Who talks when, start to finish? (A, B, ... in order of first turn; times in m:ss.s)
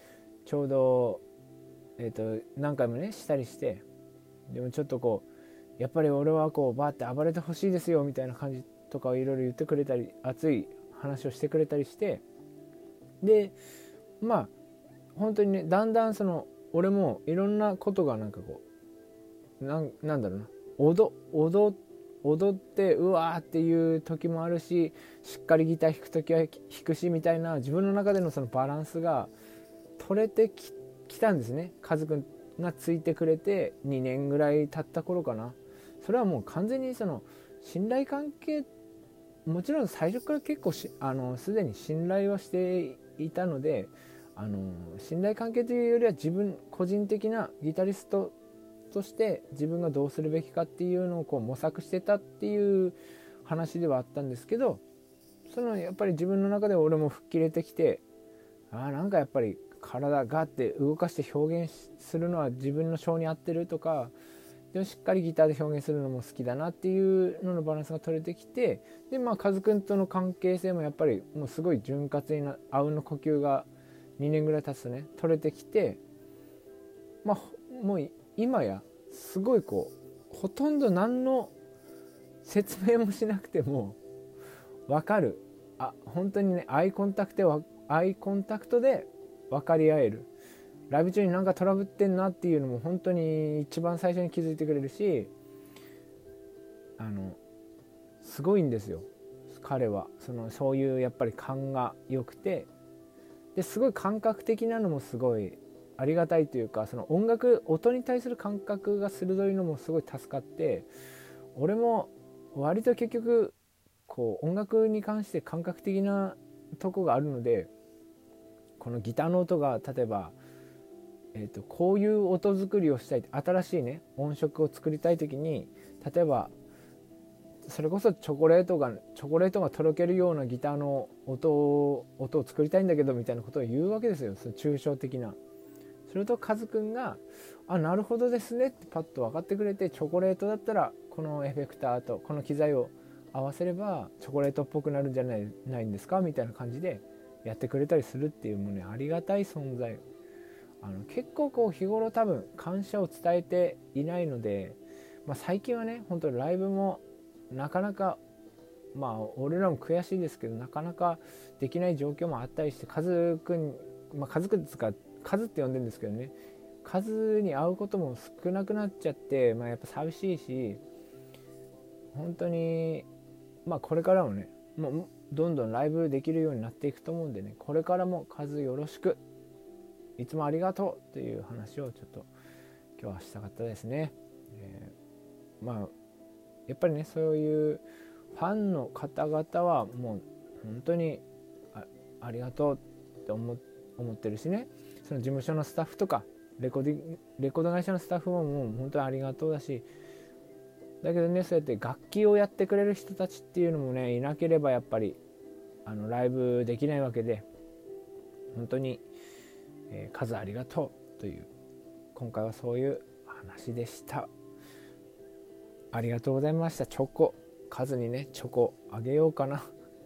0:00.4-0:01.2 A
0:02.0-0:03.9 A
0:04.5-0:05.2 A
0:05.8-0:12.2 A
0:13.2-0:13.6 A
0:14.2-0:14.5 A
0:15.2-0:18.6 A
0:19.6-0:29.3 A
0:30.0-0:38.7 A
0:39.4-0:48.4 A
0:48.9-0:54.8 A
0:55.5-0:58.0 A
0:58.7-1:04.1 A
1:04.7-1:16.0 A
1:17.2-1:21.5 A
1:22.4-1:24.0 A
1:24.9-1:30.3 A
1:30.9-1:35.3 A
1:37.0-1:37.4 A
1:38.2-1:42.7 A
1:43.6-1:50.9 A
1:51.6-1:53.6 A
1:54.1-1:57.7 A
1:58.8-2:00.4 A
2:01.3-2:06.5 A
2:07.6-2:15.4 A
2:16.1-2:30.0 A
2:30.8-2:38.2 A
2:38.9-2:50.8 A
2:52.1-2:53.1 A
2:53.6-2:59.2 A
3:00.2-3:02.3 A
3:03.0-3:04.9 A
3:05.6-3:05.9 A
3:06.7-3:19.9 A
3:21.0-3:25.2 A
3:25.8-3:27.5 A
3:28.5-3:29.0 A
3:29.9-3:31.5 A
3:32.2-3:34.3 A
3:35.9-3:39.7 A